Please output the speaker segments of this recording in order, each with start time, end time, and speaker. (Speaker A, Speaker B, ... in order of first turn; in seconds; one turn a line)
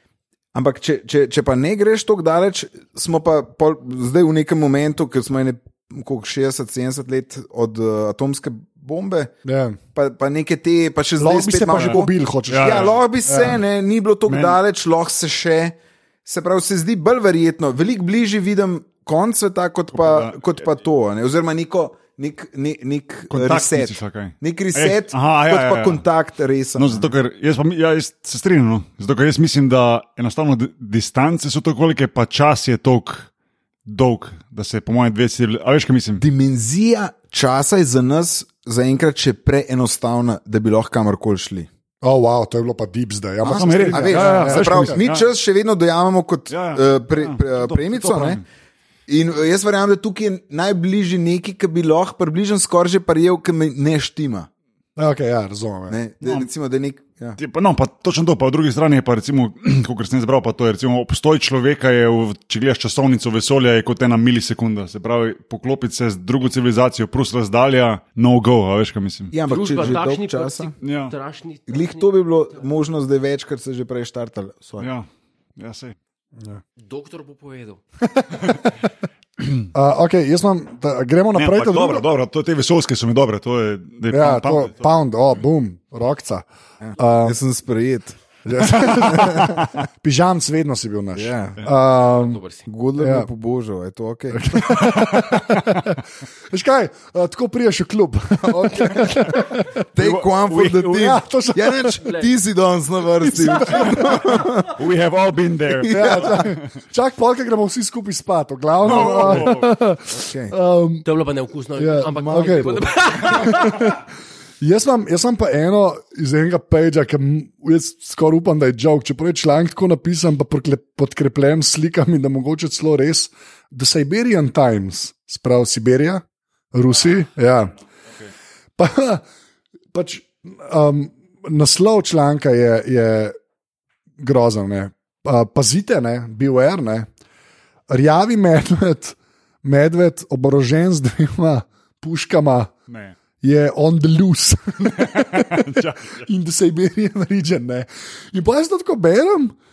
Speaker A: 0.5-9.3
Speaker B: 9.4-9.8
Speaker A: 9.9-27.1
Speaker B: 11.2-13.6
Speaker C: 11.7-13.0
Speaker C: 14.3-14.6
Speaker C: 19.9-20.4
Speaker C: 23.3-26.0
Speaker C: 26.8-33.3
Speaker C: 33.9-36.2
Speaker A: 36.2-41.7
Speaker B: 42.0-45.0
Speaker A: 43.4-48.4
Speaker C: 43.5-45.2
Speaker C: 46.5-48.4
Speaker A: 49.1-54.5
Speaker B: 55.0-56.0
Speaker A: 55.9-57.4
Speaker C: 57.4-69.3
Speaker A: 69.3-70.7
Speaker D: 69.5-72.1
Speaker C: 70.8-71.1
Speaker A: 71.7-74.9
Speaker C: 74.8-75.0
Speaker C: 75.6-75.9
Speaker D: 76.8-77.8
Speaker B: 78.0-78.9
Speaker B: 79.7-82.0
Speaker C: 81.3-84.8
Speaker B: 84.1-86.4
Speaker A: 86.8-88.2
Speaker B: 87.0-87.4
Speaker B: 88.4-92.4
Speaker A: 88.7-89.7
Speaker A: 91.1-91.6
Speaker D: 92.1-92.7
Speaker A: 92.7-94.8
Speaker B: 93.0-93.3
Speaker B: 94.3-96.0
Speaker C: 94.8-95.8
Speaker B: 96.5-99.8
Speaker A: 98.5-99.2
Speaker A: 99.9-104.8
Speaker C: 100.0-101.1
Speaker B: 100.9-102.0
Speaker D: 102.0-102.3
Speaker B: 103.3-104.0
Speaker C: 104.6-106.4
Speaker A: 105.7-106.5
Speaker B: 105.9-111.0
Speaker C: 108.8-109.7
Speaker A: 109.0-109.5
Speaker A: 110.1-110.5
Speaker D: 111.0-113.9
Speaker B: 111.8-114.0
Speaker A: 112.1-113.5
Speaker B: 114.6-127.7
Speaker B: 128.8-129.2
Speaker B: 129.9-133.3
Speaker B: 134.2-137.1
Speaker B: 137.9-142.7
Speaker C: 142.9-143.2
Speaker B: 143.4-149.5
Speaker C: 144.9-146.2